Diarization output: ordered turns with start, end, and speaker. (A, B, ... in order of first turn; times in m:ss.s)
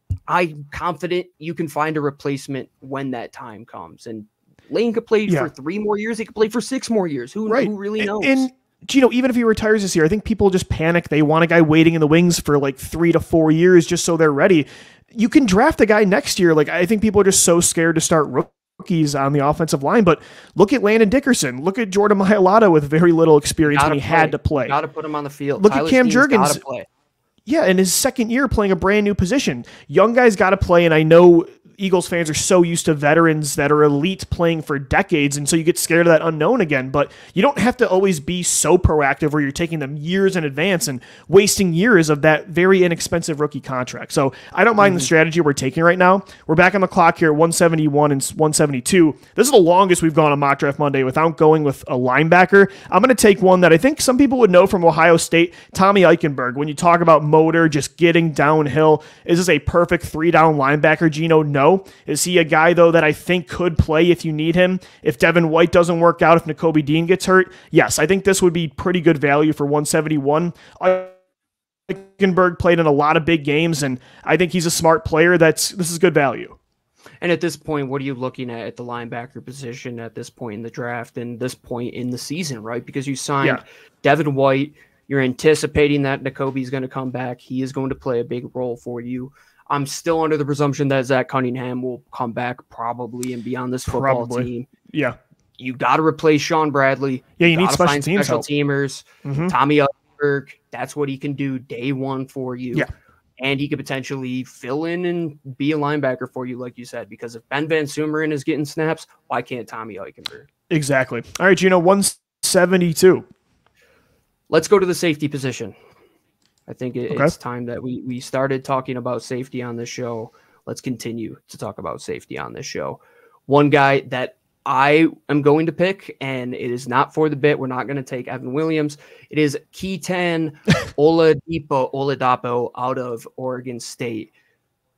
0:00.3-0:08.5 A
0:07.5-0:24.8 B
0:23.6-0:26.9 A
0:25.6-0:26.6 B
0:27.4-1:11.1 B
0:44.8-0:45.1 A
1:11.9-1:16.6 B
1:17.2-1:34.7 A
1:33.9-1:35.2 B
1:35.6-1:42.9 A
1:37.4-1:38.4 B
1:39.2-1:39.5 B
1:43.4-1:50.5 A
1:50.7-1:53.3 B
1:54.5-1:55.7 A
1:56.7-2:14.3 A